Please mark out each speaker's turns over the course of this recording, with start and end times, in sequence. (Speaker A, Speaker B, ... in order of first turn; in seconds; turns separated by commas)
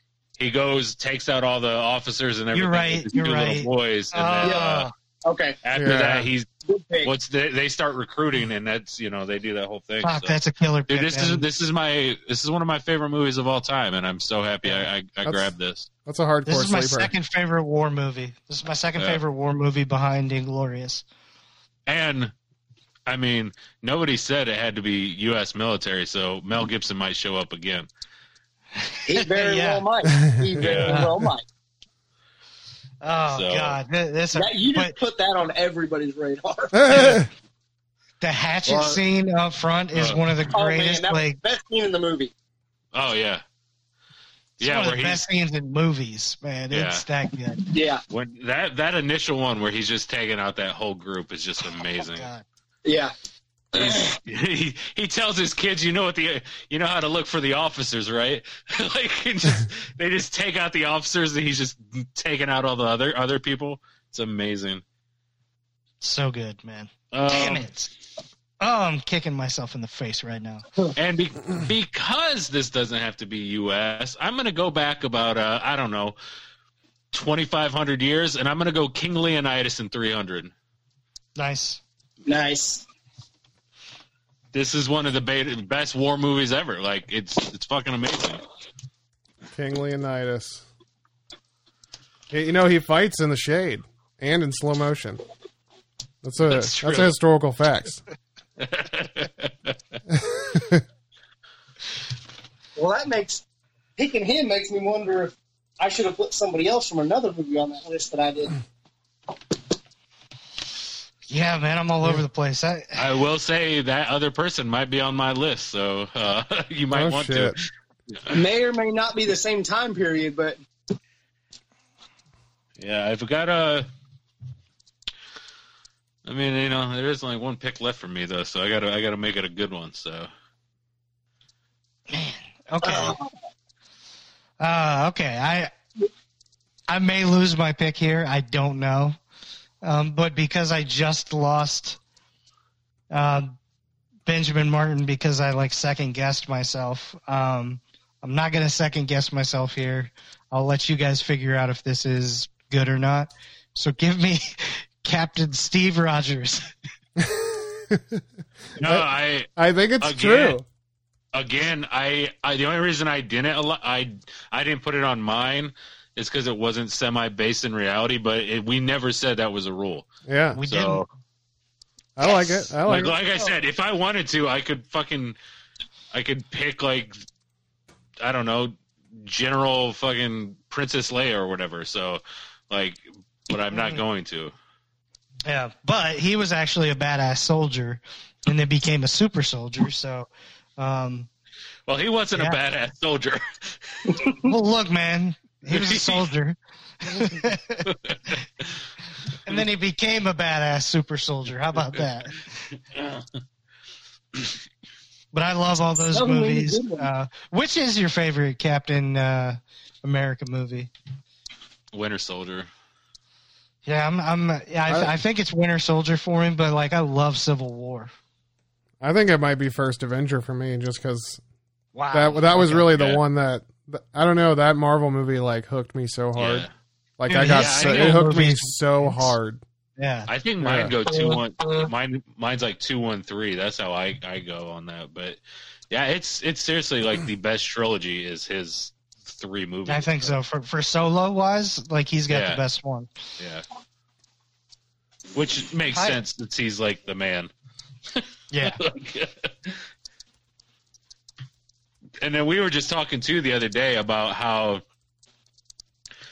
Speaker A: 0.4-4.7, Speaker B: 2.5-4.9, Speaker C: 4.4-5.6, Speaker A: 5.7-6.5, Speaker D: 5.8-6.3, Speaker C: 6.7-7.1, Speaker A: 7.0-10.4, Speaker B: 10.0-11.4, Speaker A: 10.9-15.9, Speaker D: 15.2-15.5, Speaker D: 16.1-17.1, Speaker B: 16.5-21.0, Speaker A: 21.9-22.3, Speaker A: 23.1-27.9, Speaker B: 28.8-29.8, Speaker C: 29.1-31.4, Speaker D: 30.2-30.5, Speaker A: 30.6-31.0, Speaker B: 33.0-35.0, Speaker A: 33.3-33.8, Speaker C: 34.3-37.2, Speaker D: 36.7-37.3, Speaker B: 36.9-37.2, Speaker B: 38.2-41.4, Speaker A: 38.7-39.0, Speaker A: 39.9-40.2, Speaker C: 40.5-42.3, Speaker A: 42.9-43.4, Speaker B: 44.6-47.7, Speaker A: 44.6-45.2, Speaker A: 46.7-47.0, Speaker C: 47.7-48.0, Speaker A: 48.1-52.3, Speaker B: 52.0-52.5, Speaker C: 52.9-53.1, Speaker C: 53.7-54.1, Speaker A: 53.8-64.8, Speaker B: 66.0-67.9, Speaker A: 67.1-67.7, Speaker B: 68.6-70.6, Speaker A: 71.0-76.2, Speaker A: 77.1-80.5, Speaker B: 81.4-81.8, Speaker C: 82.3-82.8, Speaker A: 84.5-88.4, Speaker D: 89.5-90.7, Speaker D: 92.3-95.2, Speaker D: 96.2-98.0, Speaker A: 96.5-97.1, Speaker A: 98.6-99.8, Speaker D: 100.1-100.8, Speaker C: 102.8-103.4, Speaker C: 104.0-108.6, Speaker B: 111.3-113.0, Speaker A: 113.0-117.6, Speaker D: 116.9-117.6, Speaker C: 118.3-120.6, Speaker A: 122.8-123.9, Speaker A: 126.2-130.3, Speaker B: 132.1-133.2, Speaker C: 132.8-133.3, Speaker B: 134.6-135.7, Speaker B: 136.9-139.2, Speaker B: 139.8-142.0, Speaker B: 143.1-143.6, Speaker B: 144.3-156.7, Speaker D: 157.2-158.2, Speaker A: 158.8-159.5, Speaker D: 159.6-160.7, Speaker A: 160.0-160.6, Speaker A: 161.3-170.1, Speaker D: 170.3-170.6, Speaker B: 170.6-171.0, Speaker A: 170.7-171.1, Speaker D: 172.2-173.2, Speaker A: 172.8-175.4, Speaker A: 176.1-177.2, Speaker A: 178.2-184.5, Speaker B: 183.7-184.0, Speaker B: 185.5-191.3, Speaker A: 191.9-194.2, Speaker C: 194.1-194.5, Speaker B: 194.4-197.9, Speaker A: 195.7-196.3, Speaker A: 197.9-198.4, Speaker B: 199.4-202.7, Speaker A: 201.8-202.1, Speaker A: 202.9-203.3, Speaker B: 205.3-210.9, Speaker C: 206.1-207.1, Speaker A: 211.9-212.7, Speaker B: 213.8-218.1, Speaker D: 214.9-215.1, Speaker D: 219.0-221.4, Speaker B: 221.9-222.9, Speaker D: 222.1-226.7, Speaker A: 222.9-223.2, Speaker A: 226.4-226.7, Speaker D: 227.2-229.6, Speaker B: 227.3-229.3, Speaker A: 227.5-228.2, Speaker B: 230.0-230.3, Speaker A: 230.3-240.3, Speaker D: 230.6-230.9, Speaker B: 239.9-243.1, Speaker A: 242.3-242.6, Speaker A: 243.4-243.7, Speaker A: 245.3-247.5, Speaker A: 248.2-249.8, Speaker B: 248.5-248.8, Speaker A: 252.2-254.8